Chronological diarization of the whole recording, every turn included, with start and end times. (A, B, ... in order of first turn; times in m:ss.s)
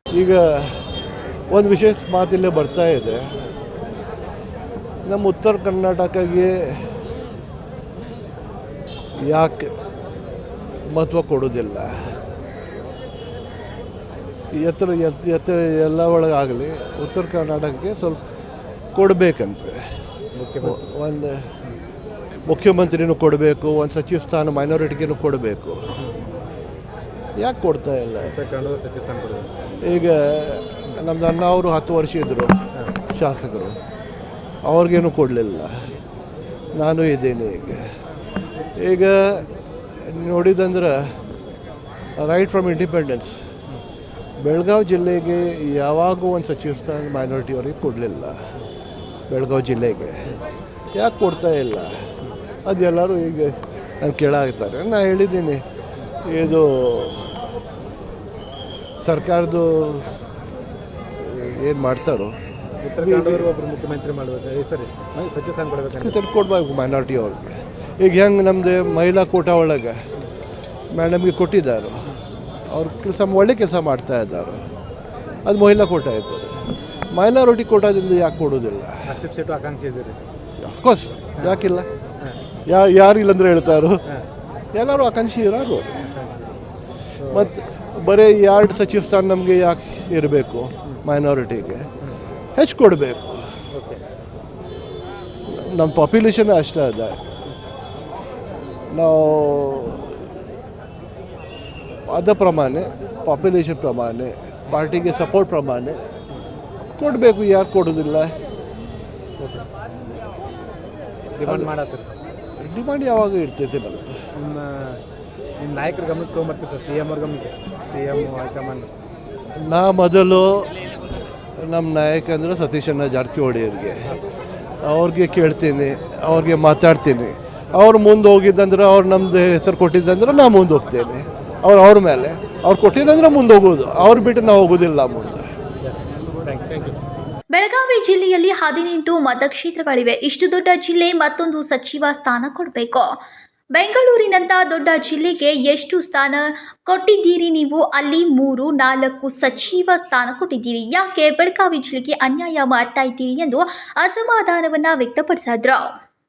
0:00.1-0:00.8 A
0:01.5-0:03.3 A
0:05.0-0:06.8 A
0:09.2-0:09.8 A
0:10.9-0:12.1 A
0:14.5-0:18.2 A
0:18.9-0:19.9 A
0:20.3-0:20.8 B
0:20.6-0:21.5 A
0:22.5-0:25.9 A
0:26.0-0:26.2 B
0:27.4-0:28.4 A
0:28.2-0:29.6 B
0:29.8-0:32.6 A
0:33.1-0:33.8 A
0:34.6-0:35.8 A
0:36.8-0:38.0 A
0:38.8-0:39.5 A
0:40.0-0:41.2 A
0:42.2-0:43.4 A
0:44.4-0:48.5 A
0:49.3-0:50.3 A
0:51.0-0:52.1 A
0:52.6-0:55.6 A
0:56.2-0:57.4 A
0:59.0-1:00.1 A
1:01.2-1:02.4 A
1:02.8-1:06.2 B
1:03.0-1:03.5 A
1:05.9-1:10.0 A
1:10.9-1:12.1 A
1:12.7-1:14.7 A
1:15.4-1:19.1 A
1:19.0-1:20.2 B
1:20.6-1:21.9 A
1:22.7-1:24.0 A
1:24.7-1:25.9 A
1:26.0-1:26.5 B
1:27.2-1:27.5 B
1:27.3-1:31.9 A
1:32.6-1:33.4 A
1:33.7-1:34.0 B
1:35.5-1:37.2 A
1:38.9-1:40.3 A
1:42.1-1:46.0 A
1:47.0-1:48.4 A
1:49.4-1:49.7 B
1:51.4-1:52.2 B
1:51.4-1:51.7 A
1:52.6-1:54.2 A
1:54.4-1:55.0 B
1:55.6-1:58.9 B
1:59.5-2:00.7 A
2:01.6-2:04.1 A
2:04.8-2:15.5 A
2:15.8-2:17.0 B
2:17.5-2:23.1 C
2:23.8-2:35.9 C